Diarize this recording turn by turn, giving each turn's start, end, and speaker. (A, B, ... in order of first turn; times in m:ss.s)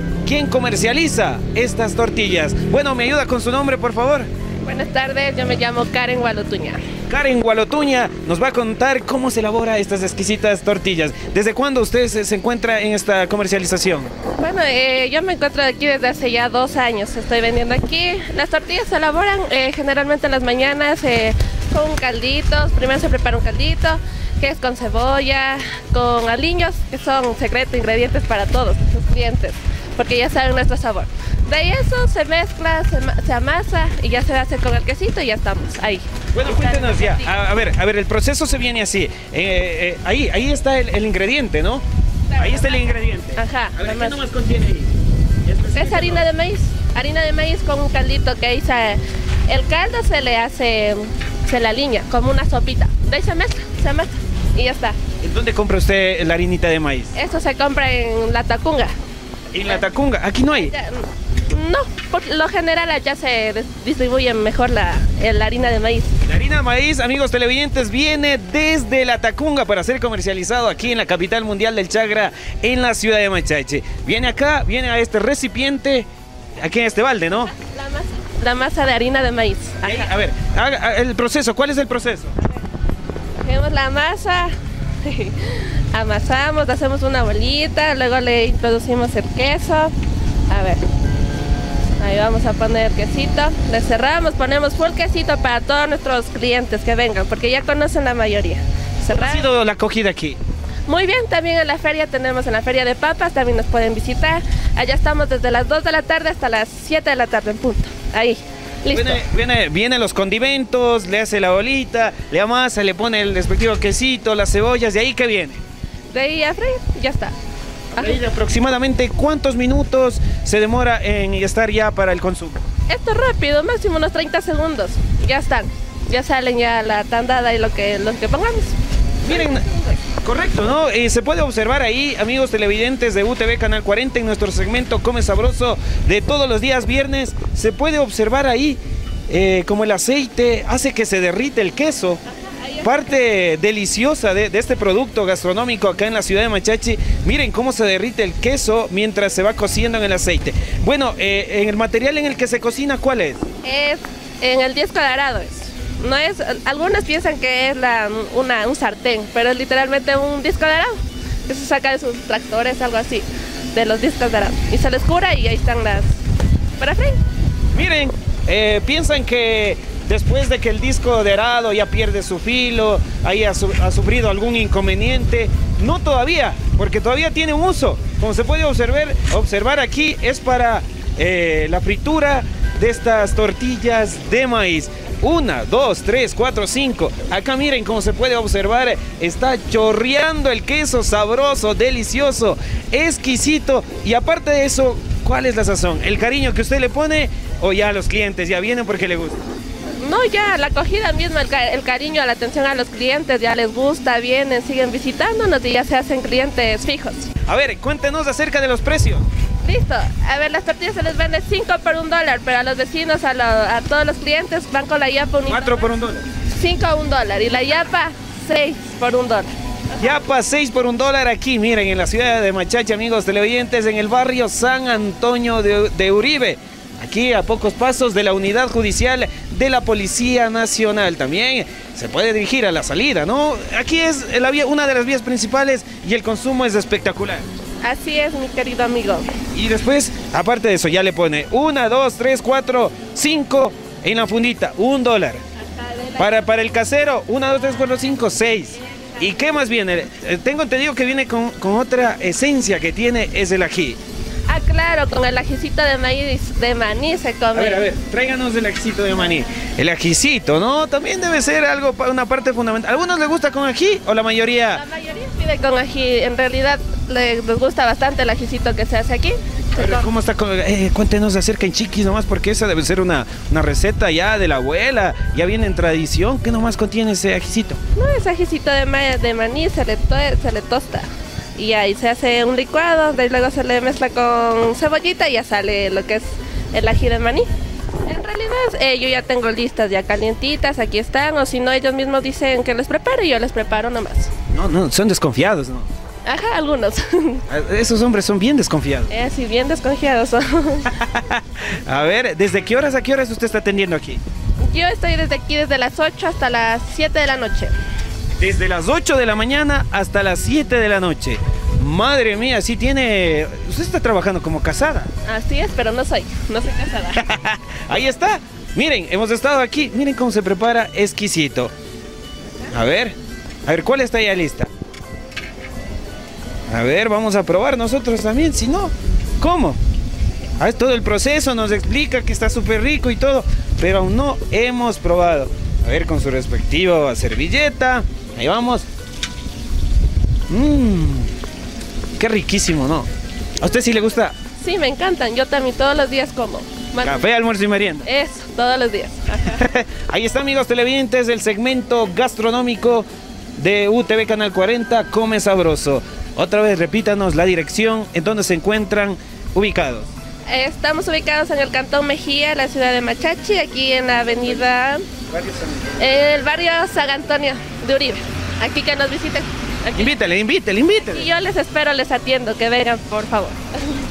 0:00.2-0:04.3 A
0:04.6-0:06.8 B
0:07.1-0:14.1 A
0:14.4-0:37.5 B
0:36.3-0:41.8 A
0:42.3-0:42.8 B
0:42.4-0:46.3 A
0:43.4-0:44.2 B
0:45.7-0:55.0 B
0:55.2-0:57.1 A
0:57.2-0:58.9 B
0:59.5-1:00.7 A
1:00.5-1:06.2 B
1:06.2-1:16.1 A
1:16.6-1:17.5 A
1:17.5-1:20.1 B
1:19.8-1:22.3 A
1:23.4-1:29.9 B
1:30.5-1:30.8 B
1:32.0-1:39.5 B
1:39.1-1:40.4 A
1:40.9-1:49.2 B
1:48.9-1:55.6 A
1:56.1-1:57.4 B
1:58.0-2:02.6 A
2:02.9-2:08.8 B
2:09.2-2:09.6 A
2:09.3-2:10.0 B
2:10.2-2:22.2 A
2:22.4-2:23.0 B
2:22.8-2:33.4 A
2:33.6-2:46.2 B
2:46.8-2:47.2 B
2:47.7-3:19.4 A
3:20.0-3:27.3 B
3:27.5-3:29.3 A
3:29.6-3:35.9 B
3:35.5-3:36.3 A
3:36.5-3:39.5 B
3:40.0-3:57.4 A
3:57.8-3:59.3 B
3:59.5-4:05.4 A
4:05.6-4:06.4 B
4:06.2-4:14.0 A
4:14.5-4:17.8 B
4:17.6-4:24.8 A
4:24.7-4:30.0 B
4:29.8-4:37.8 A
4:38.0-4:47.5 B
4:48.1-4:54.3 B
4:54.5-4:55.9 A
4:56.3-4:57.4 B
4:57.5-4:59.1 A
4:59.1-5:01.0 B
5:00.9-5:04.2 A
5:04.6-5:07.7 B
5:08.4-5:15.1 A
5:15.3-5:17.3 B
5:17.2-5:21.7 A
5:22.7-5:24.7 A
5:26.7-5:29.8 A
5:30.6-5:38.9 A
5:40.5-5:41.3 A
5:42.2-5:43.1 A
5:43.6-5:44.4 A
5:44.6-5:47.3 B
5:47.0-5:48.1 A
5:48.0-5:49.6 B
5:49.5-6:00.1 A
6:00.5-6:05.1 B
6:05.3-6:06.0 A
6:06.0-6:10.1 B
6:10.0-6:11.3 A
6:11.0-6:14.0 B